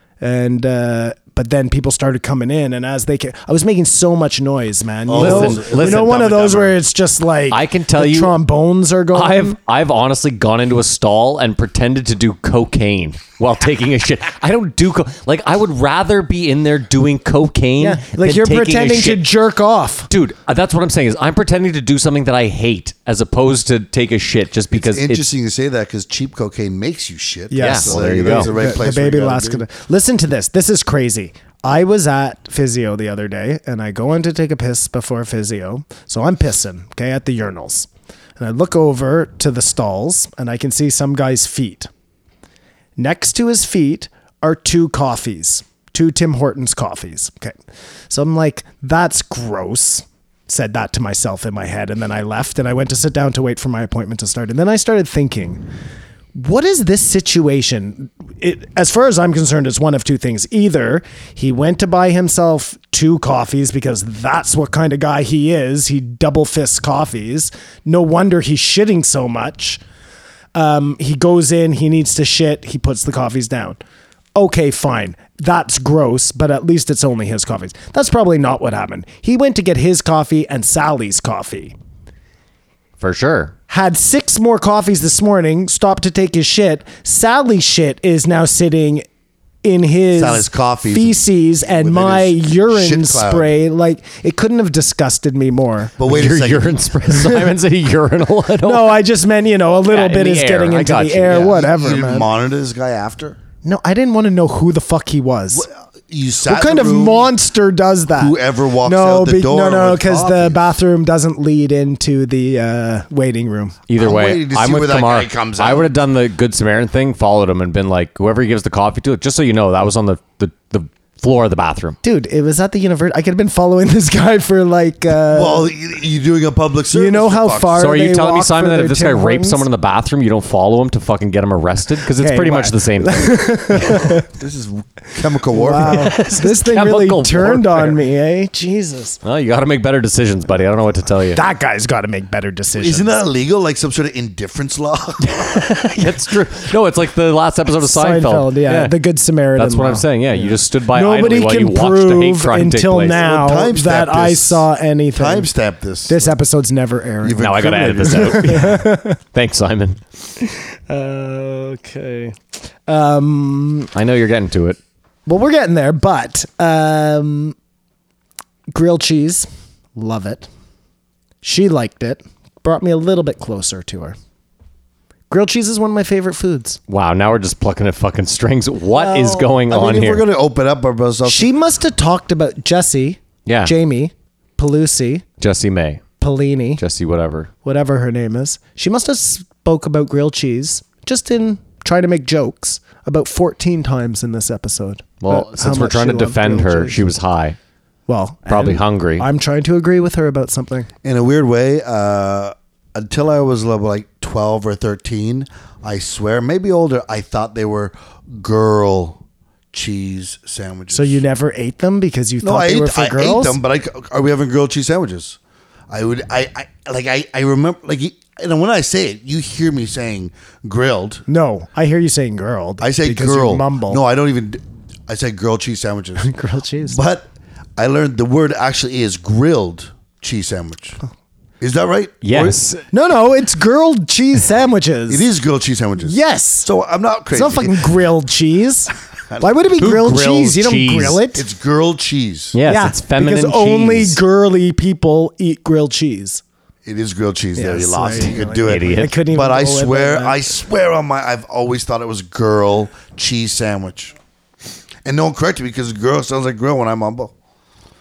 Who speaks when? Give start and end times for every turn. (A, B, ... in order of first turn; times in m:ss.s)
0:00.2-0:09.6 A
0:05.1-0:06.7 B
0:05.2-0:06.7 C
0:07.5-0:08.4 C
0:09.1-0:19.3 C
0:17.8-0:20.1 A
0:20.1-0:25.2 C
0:24.7-0:29.6 B
0:27.5-0:41.9 A
0:27.6-0:28.5 C
0:43.0-0:47.6 A
0:48.1-0:55.6 A
0:56.4-1:09.8 A
1:10.6-1:13.8 A
1:14.4-1:21.7 A
1:23.0-1:23.5 C
1:23.7-1:29.0 A
1:29.6-1:35.9 A
1:30.2-1:33.5 B
1:36.0-1:36.8 B
1:36.0-1:39.0 C
1:37.2-1:37.5 A
1:38.6-1:42.3 A
1:39.9-1:41.6 C
1:41.3-1:43.4 B
1:43.6-1:45.7 A
1:45.5-1:47.3 B
1:46.5-1:53.8 A
1:48.2-1:50.7 B
1:53.9-2:02.0 C
1:54.0-1:55.9 B
2:02.0-2:05.7 A
2:05.3-2:07.9 B
2:06.9-2:09.6 A
2:07.8-2:13.4 C
2:12.2-2:14.3 A
2:14.2-2:16.1 B
2:15.5-2:19.2 A
2:15.8-2:18.0 C
2:19.2-2:21.4 C
2:21.3-2:23.1 A
2:22.8-2:25.4 B
2:25.3-2:29.0 C
2:27.8-2:35.5 A
2:29.6-2:33.2 C
2:33.1-2:36.4 B
2:36.1-2:37.4 A
2:37.2-2:38.6 B
2:37.4-2:40.0 C
2:38.0-2:39.2 A
2:40.4-2:43.9 A
2:44.0-2:44.8 C
2:45.3-2:47.6 A
2:48.7-2:50.5 A
2:51.4-2:54.2 A
2:55.3-2:56.8 A
2:56.9-3:00.3 C
2:58.9-2:59.5 A
2:59.7-3:01.5 B
3:01.2-3:05.2 A
3:03.5-3:03.7 C
3:05.4-3:06.0 C
3:06.2-3:06.8 A
3:06.8-3:07.5 C
3:07.6-3:17.1 A
3:15.2-3:17.6 C
3:18.1-3:20.9 A
3:18.5-3:19.3 C
3:21.0-3:29.2 B
3:29.7-3:31.2 B
3:30.9-3:33.6 A
3:32.4-3:35.4 B
3:35.9-3:41.2 B
3:41.3-3:44.0 A
3:42.8-3:46.3 B
3:46.2-3:47.0 A
3:46.9-3:51.0 B
3:51.6-3:52.6 B
3:52.2-3:52.8 C
3:52.9-3:55.3 A
3:55.1-3:58.0 B
3:56.0-3:56.7 A
3:57.3-4:01.4 A
3:59.8-4:01.2 C
4:01.4-4:02.6 B
4:02.5-4:04.2 C
4:02.7-4:06.4 A
4:06.8-4:14.2 B
4:07.6-4:10.4 A
4:08.6-4:09.1 C
4:15.0-4:17.3 B